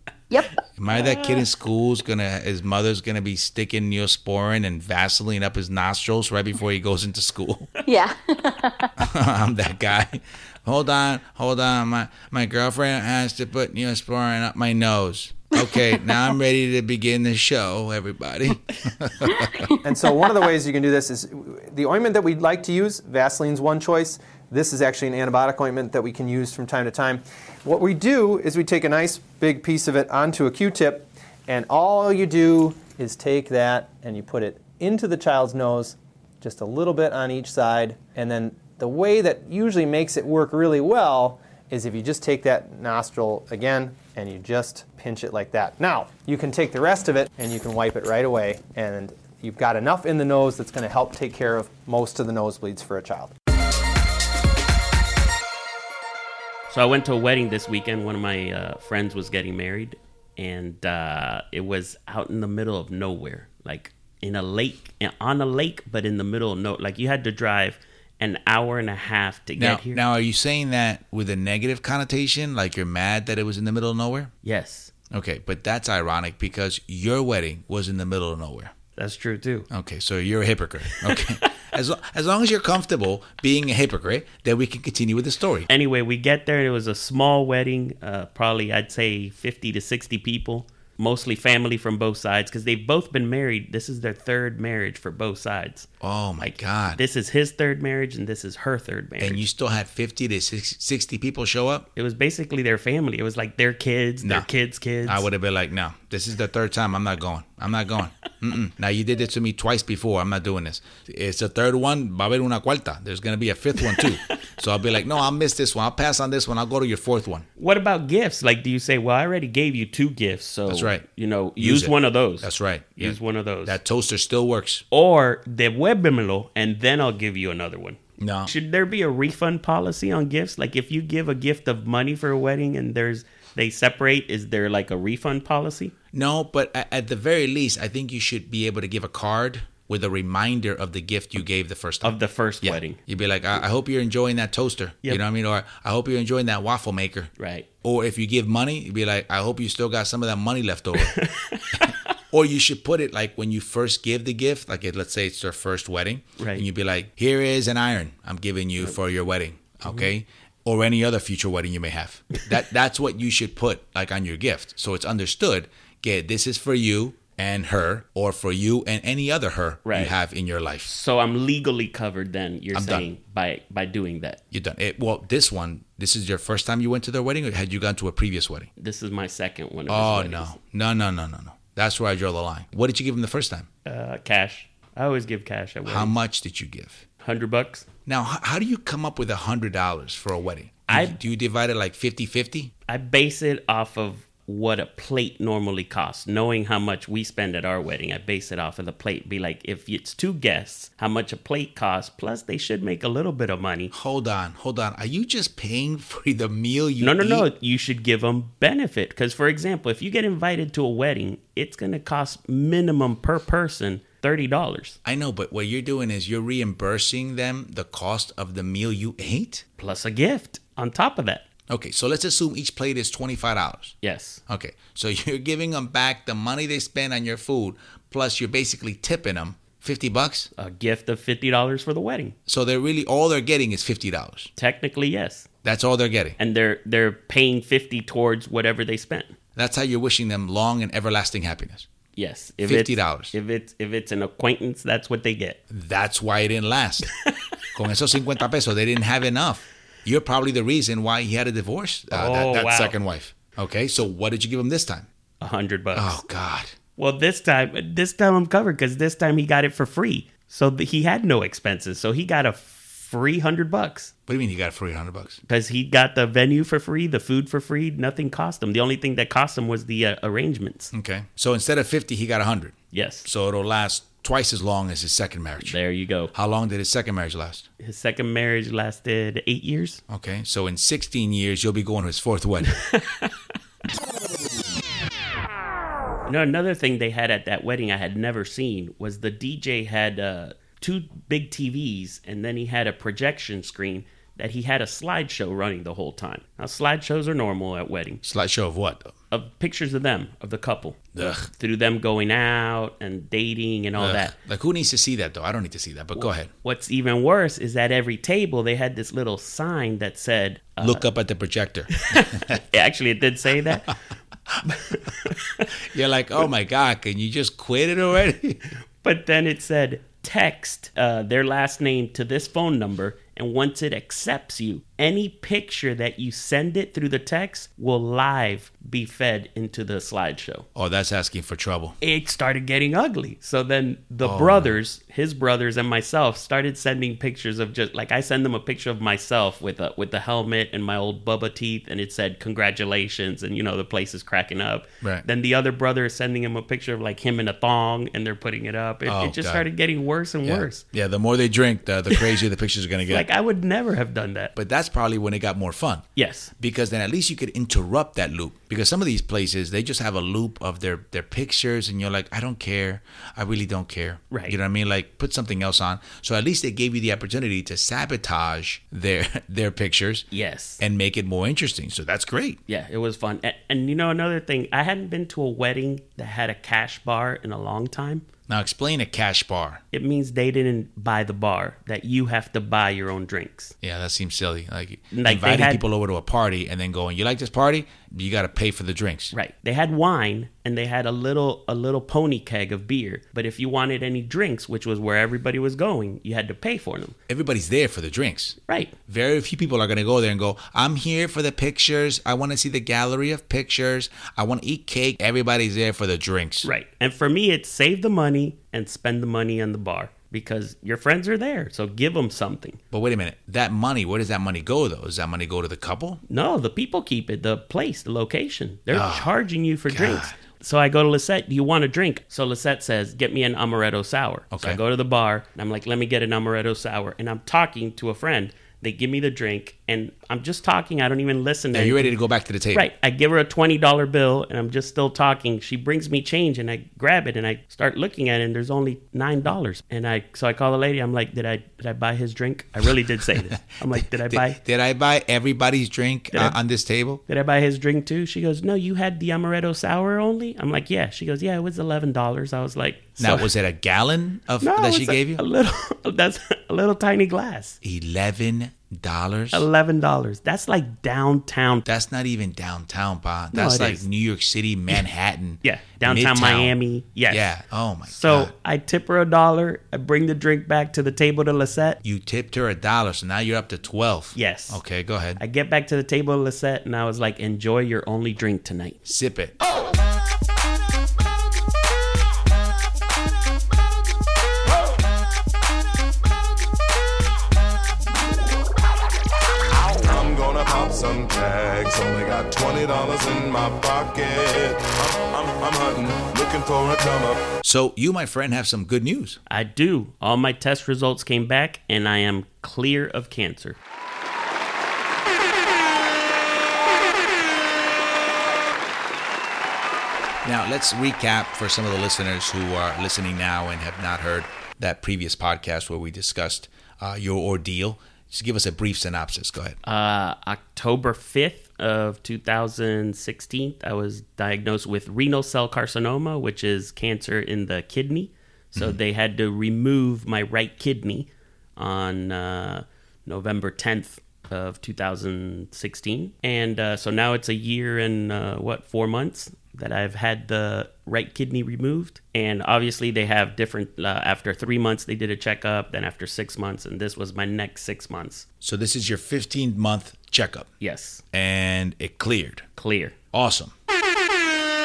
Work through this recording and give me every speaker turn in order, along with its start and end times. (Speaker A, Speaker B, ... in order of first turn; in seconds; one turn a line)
Speaker A: 0.3-0.6
Speaker B: 0.8-7.7
Speaker C: 1.0-1.3
Speaker A: 7.8-8.9
Speaker B: 9.0-19.7
Speaker A: 19.3-19.7
Speaker D: 19.8-53.3
Speaker C: 56.7-70.0
Speaker B: 69.6-74.3
Speaker C: 74.4-74.9
Speaker B: 75.1-78.7
Speaker C: 79.0-79.7
Speaker B: 79.7-85.7
Speaker C: 80.9-81.4
Speaker C: 85.7-95.9
Speaker B: 96.0-97.0
Speaker C: 96.4-99.4
Speaker B: 99.2-101.9
Speaker C: 102.0-105.3
Speaker B: 104.2-104.5
Speaker B: 105.0-117.5
Speaker C: 113.9-114.3
Speaker C: 117.6-123.8
Speaker B: 120.7-121.0
Speaker B: 121.6-124.8
Speaker C: 124.9-135.9
Speaker B: 128.2-128.5
Speaker B: 136.1-147.3
Speaker C: 142.0-143.0
Speaker C: 147.4-147.7
Speaker B: 147.8-151.2
Speaker C: 151.0-152.0
Speaker B: 151.8-170.9
Speaker C: 156.4-156.6
Speaker C: 169.8-170.1
Speaker C: 170.8-174.4
Speaker B: 172.7-173.1
Speaker B: 174.5-178.7
Speaker C: 178.8-180.6
Speaker B: 179.9-183.7
Speaker C: 183.8-186.2
Speaker B: 185.8-187.0
Speaker C: 187.2-187.8
Speaker B: 188.1-192.7
Speaker C: 190.9-191.2
Speaker C: 192.9-203.9
Speaker B: 203.9-207.5
Speaker C: 207.0-215.0
Speaker B: 215.0-219.6
Speaker C: 219.8-221.4
Speaker B: 221.7-223.9
Speaker C: 224.0-224.4
Speaker B: 224.5-230.5
Speaker C: 230.6-232.3
Speaker B: 232.5-234.5
Speaker C: 234.6-235.5
Speaker B: 235.6-236.4
Speaker C: 236.4-239.3
Speaker B: 239.6-241.9
Speaker C: 242.2-245.6
Speaker B: 242.6-243.3
Speaker B: 245.7-247.1
Speaker B: 247.7-255.1
Speaker C: 252.1-252.9
Speaker C: 255.4-256.2
Speaker B: 255.9-256.7
Speaker C: 256.9-264.1
Speaker B: 264.3-265.4
Speaker C: 265.5-270.9
Speaker B: 270.9-275.8
Speaker C: 272.9-273.3
Speaker C: 275.6-276.3
Speaker B: 276.3-277.7
Speaker C: 277.8-280.0
Speaker B: 280.1-282.7
Speaker C: 282.7-283.3
Speaker C: 286.2-298.2
Speaker B: 298.2-299.1
Speaker C: 299.3-304.3
Speaker B: 301.1-301.5
Speaker B: 304.0-306.5
Speaker C: 306.1-311.0
Speaker B: 310.8-312.6
Speaker C: 312.0-313.9
Speaker C: 314.6-315.7
Speaker B: 315.8-318.6
Speaker C: 319.0-330.6
Speaker B: 330.7-332.0
Speaker C: 332.0-350.8
Speaker B: 334.2-334.8
Speaker B: 349.1-349.7
Speaker B: 350.4-353.3
Speaker C: 353.1-354.5
Speaker B: 354.5-356.1
Speaker C: 356.1-356.5
Speaker B: 356.6-370.3
Speaker C: 364.3-364.6
Speaker C: 370.3-370.8
Speaker B: 370.8-372.6
Speaker C: 372.7-378.2
Speaker B: 378.5-379.8
Speaker C: 379.9-383.7
Speaker B: 383.8-389.3
Speaker C: 385.1-385.8
Speaker C: 389.3-397.1
Speaker B: 397.3-406.7
Speaker C: 398.7-398.9
Speaker C: 406.6-412.8
Speaker B: 412.9-416.2
Speaker C: 416.3-432.1
Speaker B: 418.9-419.4
Speaker B: 419.9-420.4
Speaker B: 424.5-424.8
Speaker B: 431.7-432.9
Speaker C: 432.7-444.6
Speaker B: 443.5-447.2
Speaker C: 446.3-446.6
Speaker C: 447.3-453.5
Speaker B: 453.2-455.4
Speaker C: 454.6-457.8
Speaker B: 457.8-459.7
Speaker C: 459.5-461.8
Speaker B: 461.8-466.7
Speaker C: 463.5-464.0
Speaker C: 465.6-467.5
Speaker B: 467.3-468.5
Speaker C: 468.1-472.0
Speaker B: 472.0-475.4
Speaker C: 474.3-474.8
Speaker C: 475.4-479.0
Speaker B: 479.0-479.6
Speaker E: 490.0-497.5
Speaker B: 497.6-499.4
Speaker C: 499.5-503.8
Speaker B: 510.4-519.8
Speaker C: 519.8-548.5
Speaker B: 548.6-550.7
Speaker C: 550.8-551.2
Speaker B: 551.3-552.7
Speaker C: 552.8-553.2
Speaker B: 553.3-553.7